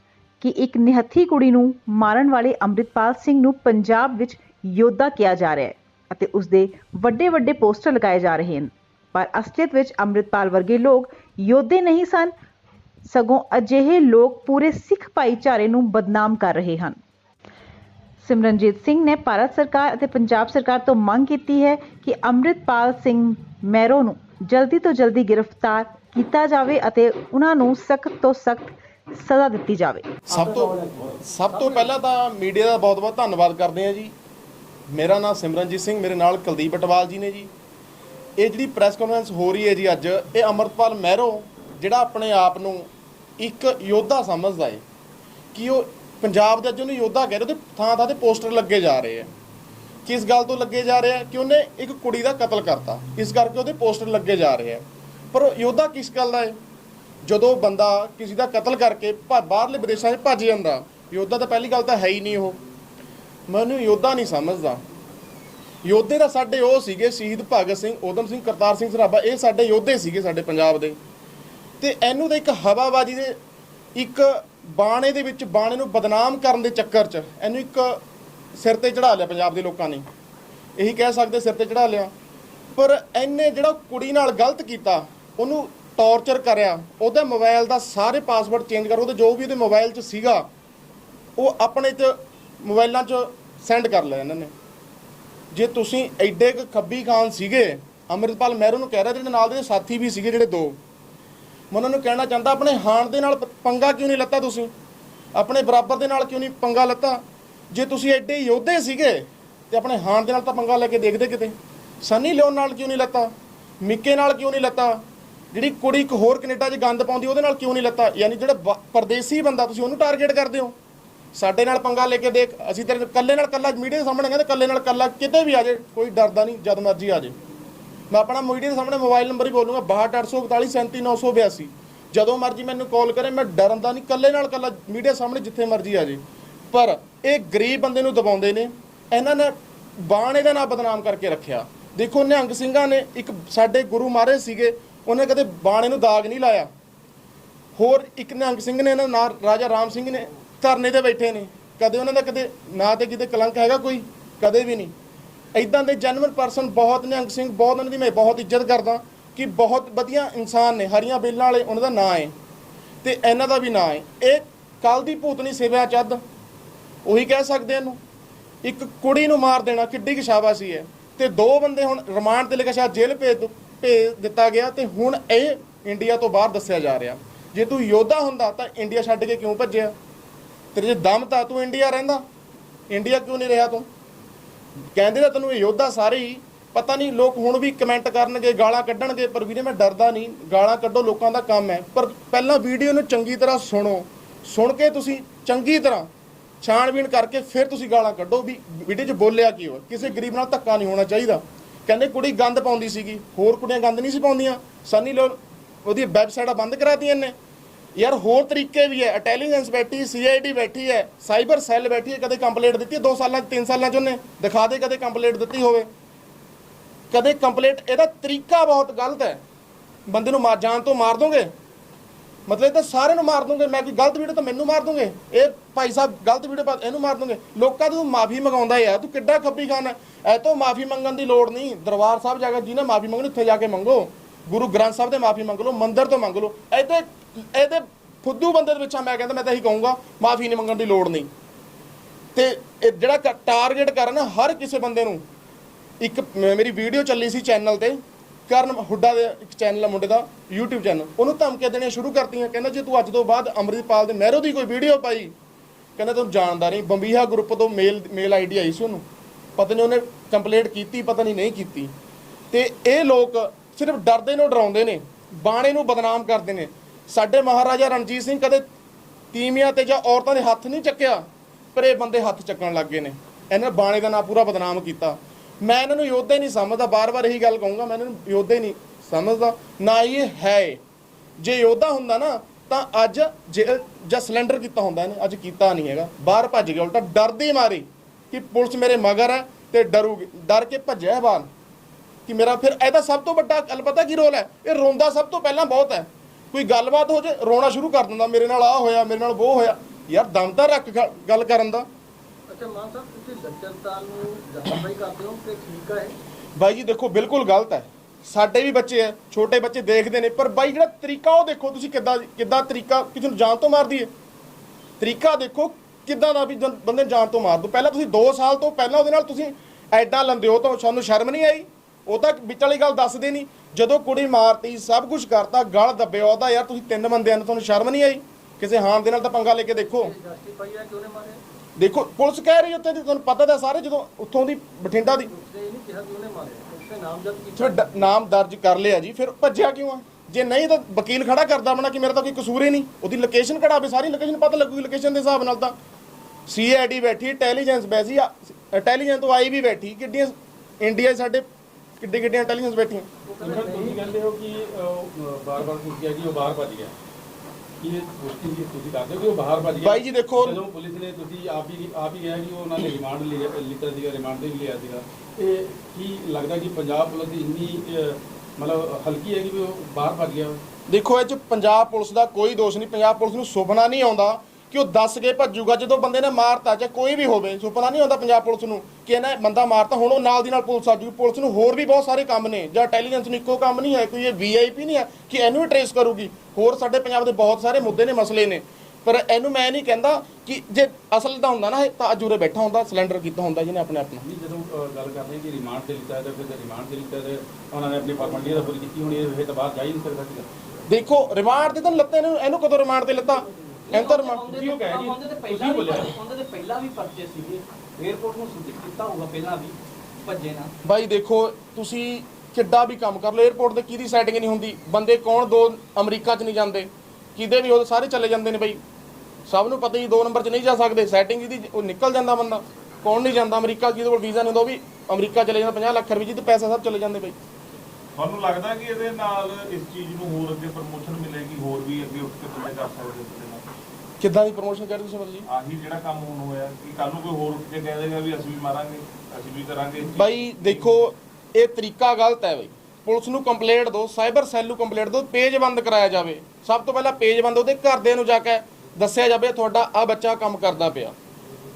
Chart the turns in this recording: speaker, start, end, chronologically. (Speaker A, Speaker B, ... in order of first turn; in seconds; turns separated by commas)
Speaker A: 0.4-12.3, Speaker A: 13.1-17.0, Speaker A: 18.2-30.1, Speaker B: 30.3-34.1, Speaker C: 30.4-31.7, Speaker B: 34.9-37.5, Speaker B: 38.4-42.9, Speaker B: 43.4-44.8, Speaker B: 45.5-49.3, Speaker B: 50.1-56.6, Speaker B: 57.2-62.6, Speaker B: 63.5-64.8, Speaker B: 65.8-71.0, Speaker B: 71.8-73.3, Speaker B: 74.0-78.0, Speaker B: 78.6-80.1, Speaker B: 80.8-82.1, Speaker B: 82.8-90.5, Speaker B: 91.4-94.5, Speaker B: 95.5-100.8, Speaker B: 101.7-104.7, Speaker B: 105.3-120.8, Speaker B: 121.3-127.4, Speaker B: 128.1-136.2, Speaker B: 136.7-146.7, Speaker B: 147.8-154.9, Speaker B: 155.6-162.3, Speaker B: 163.0-166.2, Speaker B: 167.1-168.0, Speaker B: 168.6-179.9, Speaker B: 180.7-182.2, Speaker B: 182.9-183.9, Speaker B: 184.9-196.1, Speaker B: 196.6-207.3, Speaker B: 208.0-215.9, Speaker B: 217.1-219.4, Speaker B: 220.1-221.5, Speaker B: 222.5-241.3, Speaker B: 242.3-245.2, Speaker B: 246.0-248.0, Speaker B: 248.5-255.3, Speaker B: 256.0-259.1, Speaker B: 259.6-261.9, Speaker B: 262.5-268.6, Speaker B: 269.3-280.8, Speaker B: 281.4-291.5, Speaker B: 292.3-301.9, Speaker C: 302.5-306.2, Speaker B: 306.6-314.1, Speaker B: 315.0-330.1, Speaker C: 329.7-331.4, Speaker B: 331.8-335.3, Speaker C: 334.9-338.1, Speaker B: 337.6-345.8, Speaker B: 346.5-351.4, Speaker B: 352.0-353.1, Speaker C: 353.3-354.1, Speaker D: 353.4-356.9, Speaker D: 357.8-370.6, Speaker B: 359.8-360.6, Speaker B: 370.9-394.2, Speaker D: 394.2-400.5, Speaker B: 400.9-404.4, Speaker E: 403.9-410.7, Speaker D: 404.6-405.5, Speaker F: 404.6-406.1, Speaker B: 410.8-418.8, Speaker B: 419.5-427.4, Speaker F: 428.2-433.6, Speaker B: 434.2-435.5, Speaker F: 435.5-440.3, Speaker B: 440.2-451.2